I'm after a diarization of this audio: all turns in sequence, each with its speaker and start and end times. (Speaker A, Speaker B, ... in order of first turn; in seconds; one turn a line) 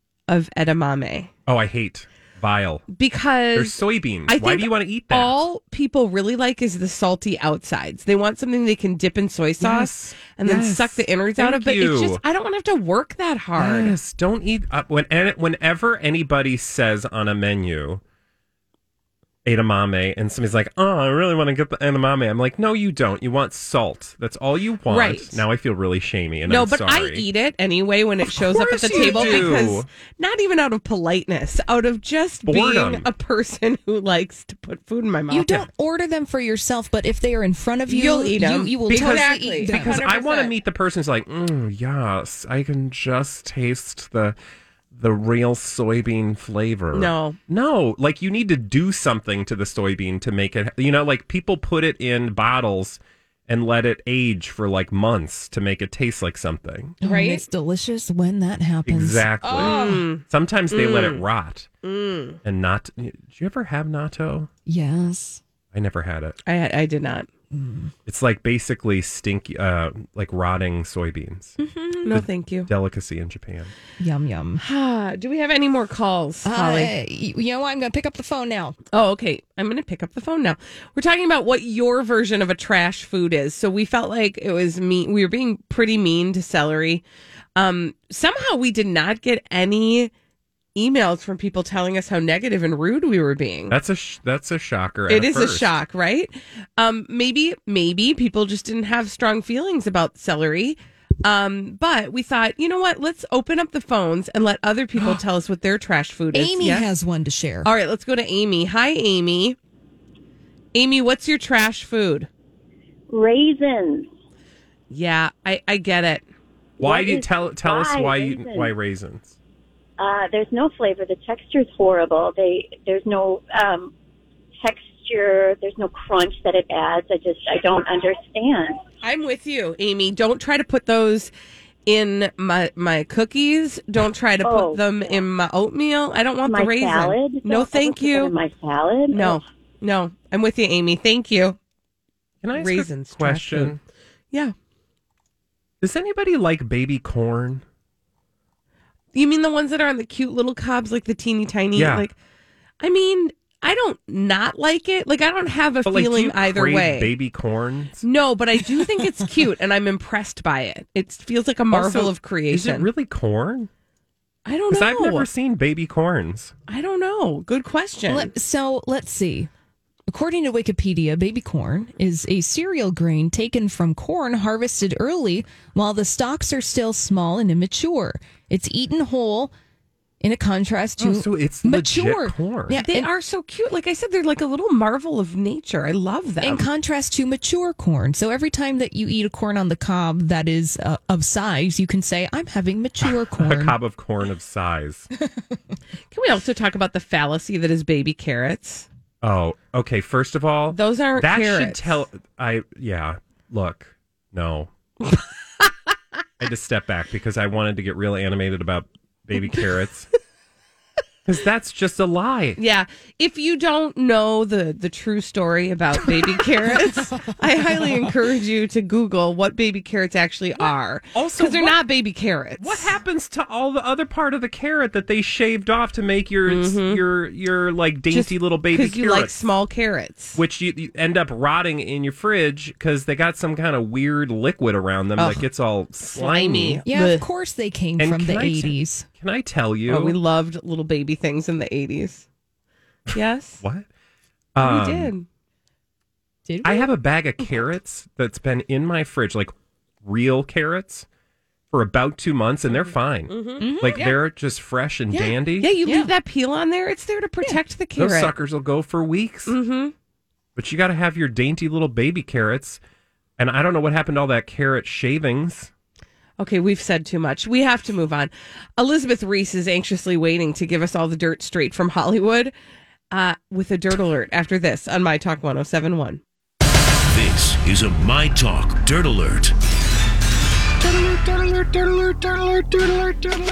Speaker A: 0.3-1.3
Speaker B: 1.4-2.9
Speaker A: 2.9-13.9
Speaker B: 3.5-5.4
Speaker B: 9.6-12.2
Speaker B: 13.6-18.0
Speaker B: 19.4-27.2
Speaker A: 24.9-25.4
Speaker A: 26.5-35.7
Speaker B: 28.3-29.9
Speaker C: 28.8-29.6
Speaker B: 32.5-33.1
Speaker C: 35.3-40.0
Speaker A: 37.9-40.5
Speaker B: 38.9-44.4
Speaker B: 44.9-57.0
Speaker A: 46.9-47.4
Speaker C: 57.0-60.1
Speaker A: 57.0-57.4
Speaker B: 58.9-61.7
Speaker A: 59.5-61.2
Speaker A: 61.8-62.4
Speaker B: 62.4-64.5
Speaker C: 64.7-65.4
Speaker B: 65.7-66.4
Speaker A: 66.5-67.3
Speaker C: 67.5-67.9
Speaker B: 68.1-71.6
Speaker A: 72.0-72.7
Speaker B: 72.1-73.7
Speaker C: 74.0-74.6
Speaker A: 74.6-76.9
Speaker C: 76.4-78.8
Speaker A: 78.9-87.0
Speaker A: 87.5-90.1
Speaker A: 90.8-93.7
Speaker B: 93.7-95.7
Speaker A: 95.1-106.9
Speaker C: 106.3-107.7
Speaker A: 107.6-109.6
Speaker A: 110.7-112.3
Speaker D: 113.3-114.0
Speaker A: 114.9-116.2
Speaker B: 116.8-119.3
Speaker D: 116.9-118.7
Speaker D: 120.0-123.9
Speaker D: 124.6-128.8
Speaker A: 129.0-131.3
Speaker A: 131.8-138.3
Speaker D: 134.5-134.8
Speaker D: 136.5-139.3
Speaker A: 139.1-141.6
Speaker B: 142.4-143.8
Speaker A: 142.5-143.8
Speaker B: 145.8-147.6
Speaker A: 149.1-152.1
Speaker B: 151.8-152.1
Speaker A: 152.8-157.1
Speaker B: 155.8-158.0
Speaker A: 158.0-162.9
Speaker B: 161.7-163.7
Speaker A: 164.4-165.3
Speaker B: 164.7-166.5
Speaker A: 166.7-168.3
Speaker C: 168.1-169.5
Speaker C: 170.1-179.5
Speaker C: 180.2-183.1
Speaker B: 181.0-182.8
Speaker A: 182.7-186.7
Speaker C: 186.4-193.8
Speaker B: 193.3-195.1
Speaker A: 196.1-198.9
Speaker B: 199.2-204.7
Speaker A: 200.7-202.0
Speaker B: 206.4-210.1
Speaker B: 211.2-212.6
Speaker A: 212.6-222.9
Speaker B: 221.1-221.8
Speaker B: 222.6-229.4
Speaker A: 226.4-227.0
Speaker A: 228.1-230.4
Speaker B: 230.3-236.8
Speaker A: 235.2-235.4
Speaker A: 236.1-237.2
Speaker C: 236.8-239.1
Speaker B: 238.0-240.2
Speaker A: 239.9-242.2
Speaker B: 243.1-243.8
Speaker A: 243.1-243.6
Speaker B: 244.5-245.1
Speaker A: 244.6-245.2
Speaker C: 246.5-246.9
Speaker B: 246.6-249.5
Speaker B: 250.0-251.1
Speaker B: 251.7-255.7
Speaker A: 252.7-254.1
Speaker C: 253.6-254.2
Speaker A: 255.6-258.3
Speaker C: 255.8-256.1
Speaker B: 257.9-259.6
Speaker A: 259.5-259.9
Speaker B: 260.6-262.8
Speaker B: 263.4-265.7
Speaker A: 266.4-272.5
Speaker A: 273.1-276.2
Speaker E: 277.1-279.5